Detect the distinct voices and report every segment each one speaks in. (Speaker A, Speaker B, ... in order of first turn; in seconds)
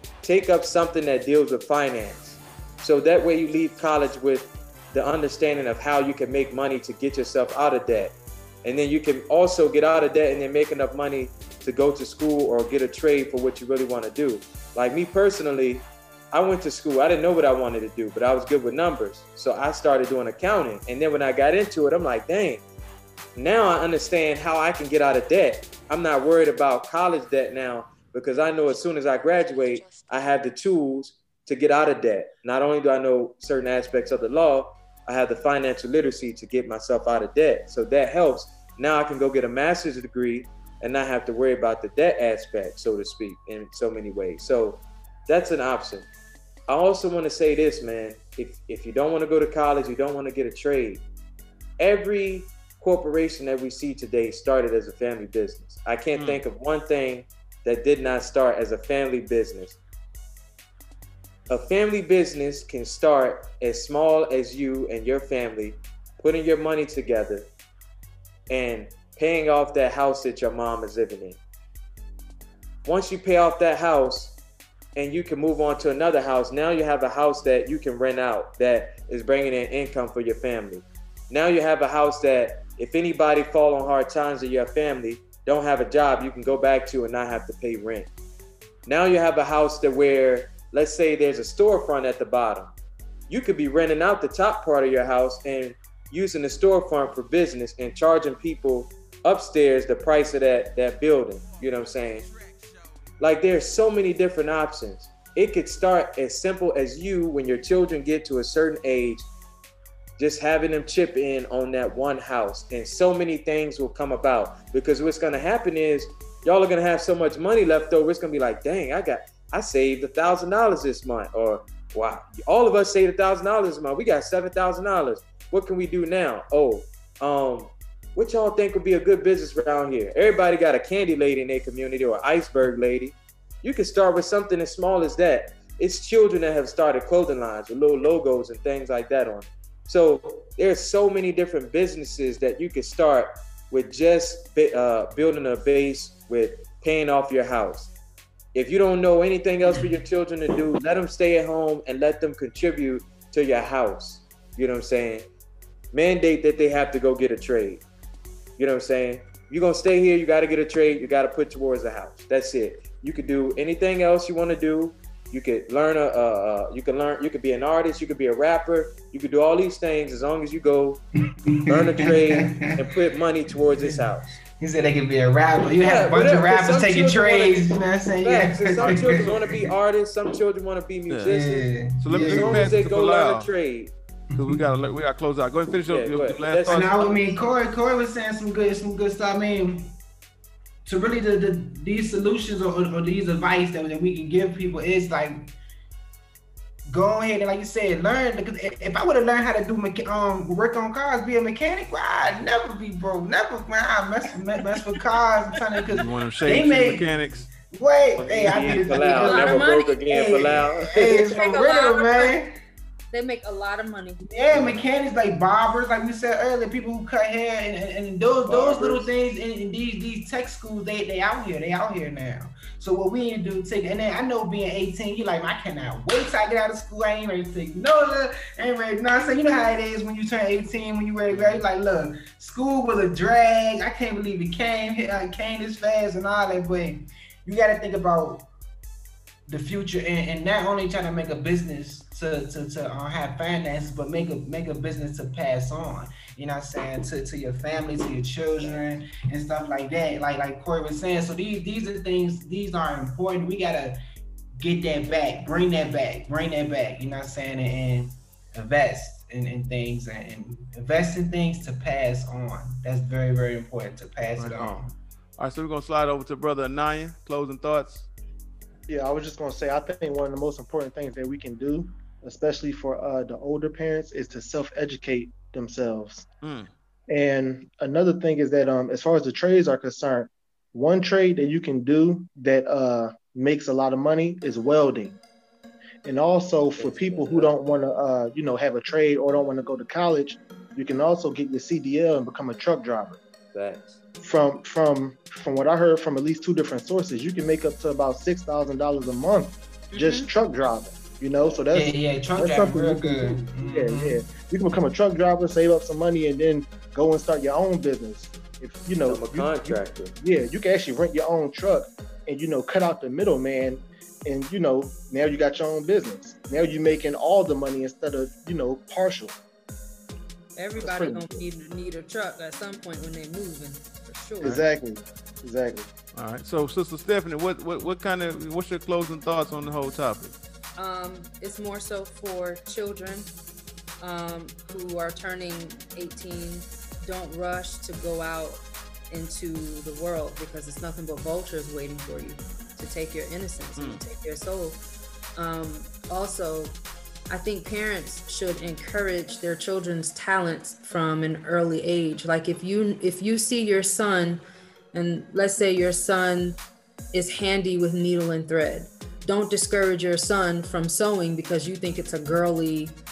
Speaker A: 0.2-22.6, 23.4-46.1, 46.7-51.0, 51.8-59.8, 61.5-67.5, 68.5-71.4, 72.8-74.4, 74.9-88.1, 88.8-92.7, 93.3-102.3, 103.2-109.3, 110.2-147.9, 148.5-155.3, 155.9-157.8, 158.6-171.0, 171.7-174.3, 175.8-183.9, 185.9-187.6, 208.2-211.3, 218.4-219.1, 286.8-287.5, 293.5-294.0, 309.0-310.1
Speaker B: 56.1-56.4, 178.8-179.3, 181.1-181.3, 182.0-183.5, 184.3-187.1, 205.9-207.5, 214.5-214.8, 231.3-231.6, 264.4-268.1, 276.4-276.7, 326.1-330.3, 343.8-344.0
Speaker C: 171.4-172.7, 173.7-174.1, 174.6-179.7, 181.2-182.7, 184.3-184.6, 186.7-189.9, 190.8-195.5, 196.9-212.5, 214.2-238.5, 239.5-254.0, 254.6-264.9, 301.7-304.2
Speaker D: 209.2-210.0, 211.2-212.4, 213.1-214.2, 320.6-324.6, 330.8-333.3, 334.0-344.8, 345.4-346.7, 347.3-354.4, 354.9-356.6, 357.1-363.0
Speaker E: 268.9-276.2, 277.1-285.2, 286.0-293.2, 294.2-319.3, 320.8-321.4, 324.4-325.9